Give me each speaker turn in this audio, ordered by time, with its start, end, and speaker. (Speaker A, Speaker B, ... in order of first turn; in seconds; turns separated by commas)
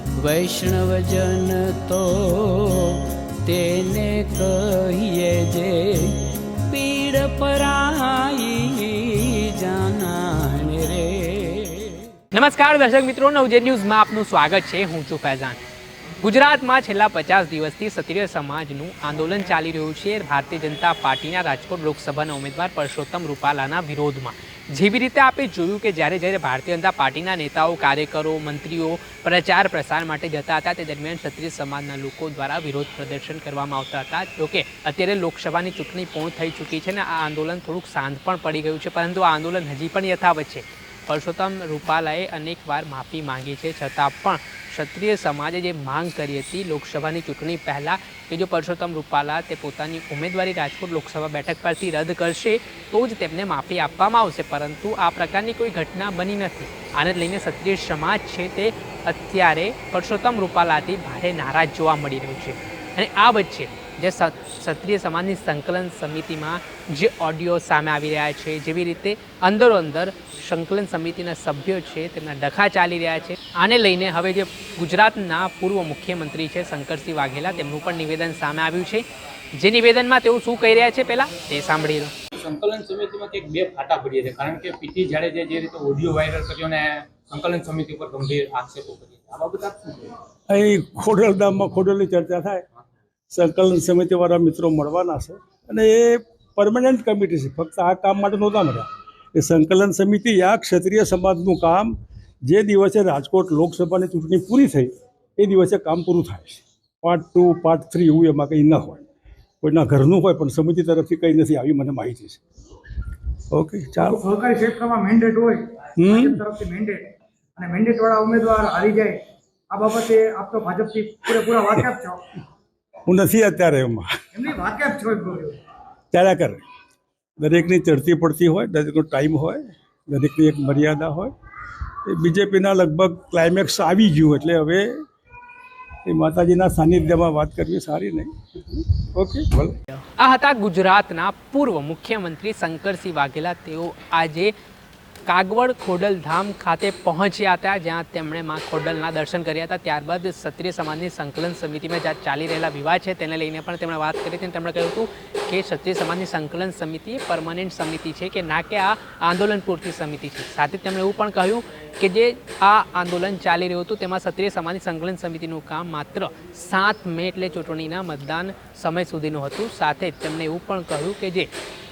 Speaker A: 0.1-12.1, Speaker B: 12.3-15.6, Speaker B: 16.2-82.1, Speaker C: 82.4-90.1, Speaker D: 90.5-92.6, Speaker D: 93.3-109.0, Speaker D: 109.6-112.4, Speaker D: 113.5-114.2, Speaker E: 114.0-122.3, Speaker D: 116.0-116.4, Speaker D: 123.0-124.2, Speaker E: 124.3-125.6, Speaker D: 126.1-126.6, Speaker D: 127.4-131.3, Speaker D: 132.0-135.0, Speaker D: 136.0-139.8, Speaker B: 140.2-144.5, Speaker B: 145.2-171.5